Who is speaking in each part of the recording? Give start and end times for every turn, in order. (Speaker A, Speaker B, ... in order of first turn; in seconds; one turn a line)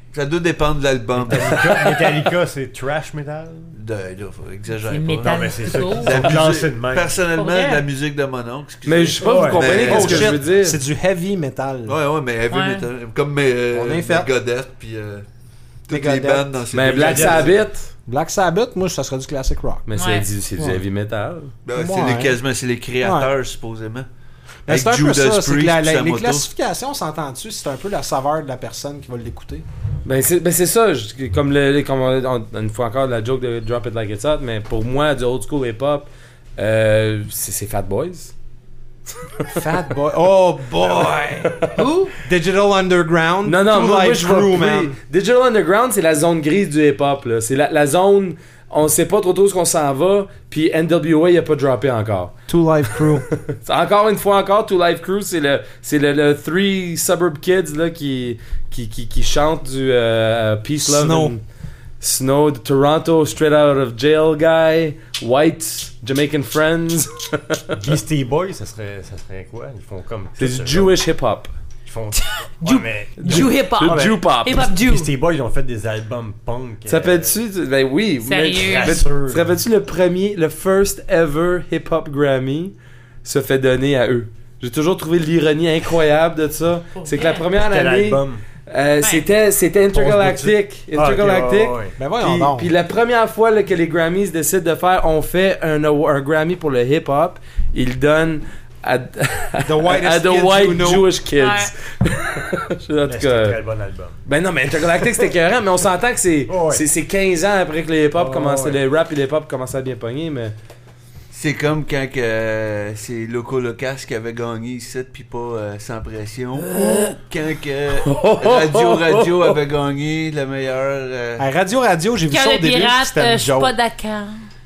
Speaker A: 0.1-2.0
Speaker B: 1.2-3.8
Speaker A: 3.7-10.3
Speaker C: 4.8-6.4
Speaker B: 5.2-7.2
Speaker C: 7.3-7.9
Speaker D: 8.9-10.8
Speaker B: 9.2-9.9
Speaker E: 9.6-12.0
Speaker A: 11.9-15.3
Speaker C: 12.5-12.9
Speaker E: 13.7-14.3
Speaker A: 15.9-17.6
Speaker E: 15.9-16.6
Speaker D: 16.7-17.9
Speaker B: 16.9-17.5
Speaker E: 18.1-19.9
Speaker D: 19.9-21.5
Speaker C: 20.0-20.3
Speaker A: 21.6-24.1
Speaker E: 21.7-22.4
Speaker E: 23.0-23.3
Speaker A: 24.7-26.5
Speaker E: 24.7-29.6
Speaker D: 30.1-38.3
Speaker D: 39.3-39.7
Speaker E: 39.5-45.0
Speaker C: 41.8-42.1
Speaker D: 43.5-52.4
Speaker E: 52.5-53.3
Speaker D: 52.9-61.4
Speaker E: 60.8-61.4
Speaker D: 62.0-67.8
Speaker B: 67.8-70.9
Speaker D: 70.4-71.5
Speaker B: 71.9-77.3
Speaker C: 72.2-75.1
Speaker D: 73.2-74.7
Speaker D: 76.9-103.6
Speaker C: 78.2-79.0
Speaker B: 78.6-79.6
Speaker C: 87.0-87.5
Speaker B: 87.6-88.4
Speaker C: 89.0-89.3
Speaker B: 89.9-92.0
Speaker E: 92.0-92.7
Speaker E: 99.7-101.1
Speaker C: 101.4-101.7
Speaker B: 103.0-104.2
Speaker D: 104.2-110.5
Speaker B: 106.5-106.8
Speaker B: 108.2-108.8
Speaker A: 111.3-121.5
Speaker D: 116.6-117.2
Speaker D: 118.0-119.6
Speaker E: 121.4-123.7
Speaker C: 122.3-124.5